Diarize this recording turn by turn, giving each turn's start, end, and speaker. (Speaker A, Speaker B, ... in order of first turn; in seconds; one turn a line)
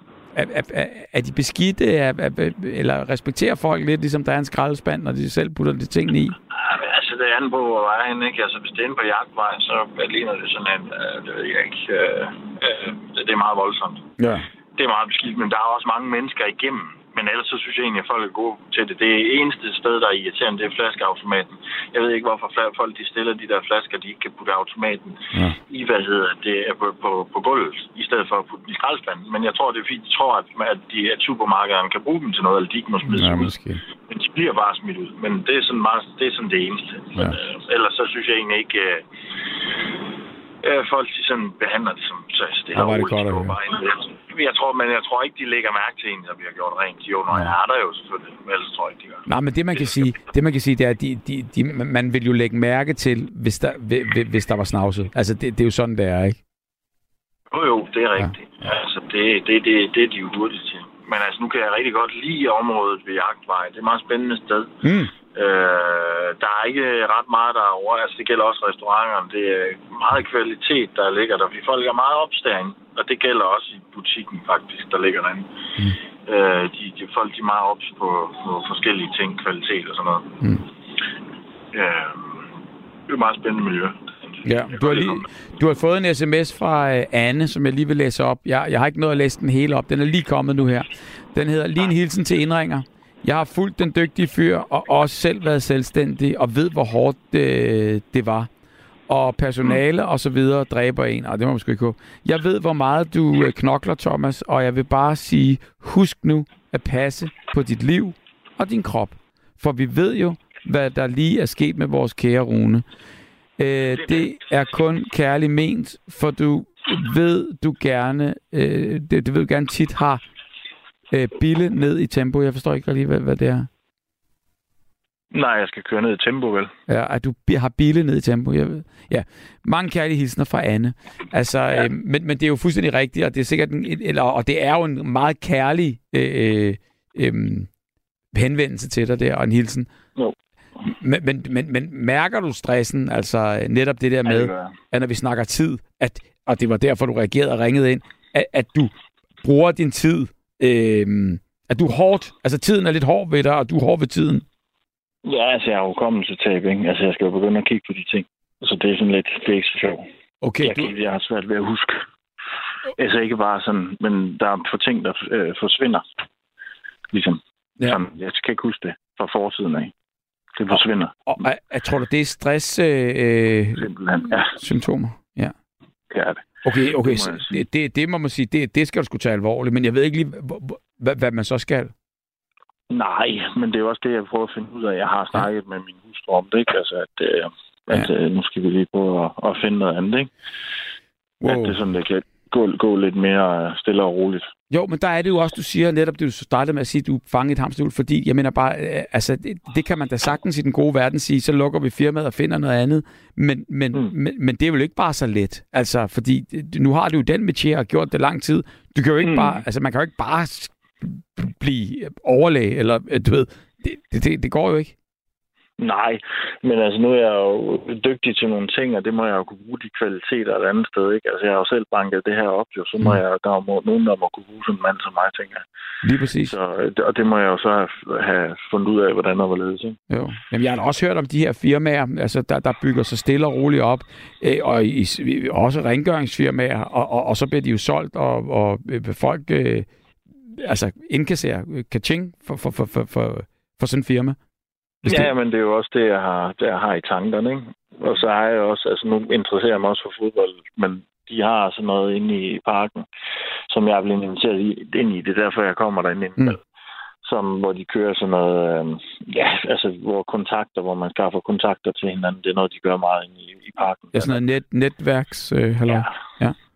Speaker A: 0.3-6.3
Speaker B: 6.5-14.1
Speaker A: 14.2-14.5
Speaker B: 14.8-33.5
Speaker A: 33.1-33.8
Speaker B: 34.1-39.0
Speaker B: 40.6-49.2
Speaker A: 42.7-43.6
Speaker A: 49.3-56.4
Speaker B: 57.5-75.5
Speaker A: 64.8-65.1
Speaker B: 76.2-80.4
Speaker B: 81.7-82.5
Speaker B: 83.1-85.2
Speaker A: 84.4-98.5
Speaker A: 99.1-112.8
Speaker A: 113.6-120.2
Speaker A: 121.1-123.7
Speaker C: 125.3-126.7
Speaker A: 126.9-137.7
Speaker A: 138.3-139.9
Speaker A: 140.8-148.9
Speaker C: 144.3-144.6
Speaker A: 149.4-154.4
Speaker C: 155.2-160.0
Speaker A: 160.4-160.9
Speaker C: 160.6-162.0
Speaker C: 162.9-166.1
Speaker C: 167.1-169.9
Speaker C: 170.6-171.5
Speaker A: 170.7-175.5
Speaker C: 173.8-174.6
Speaker C: 176.1-176.5
Speaker A: 176.6-181.9
Speaker C: 177.0-177.6
Speaker C: 182.9-190.3
Speaker A: 191.4-191.8
Speaker C: 191.4-194.5
Speaker A: 194.7-214.9
Speaker C: 209.2-209.6
Speaker C: 215.8-225.6
Speaker A: 226.0-226.5
Speaker C: 226.4-230.0
Speaker A: 230.1-239.9
Speaker A: 240.4-244.4
Speaker A: 245.0-245.3
Speaker C: 245.1-253.1
Speaker C: 253.7-256.6
Speaker C: 257.2-264.4
Speaker A: 264.1-266.6
Speaker C: 265.9-266.1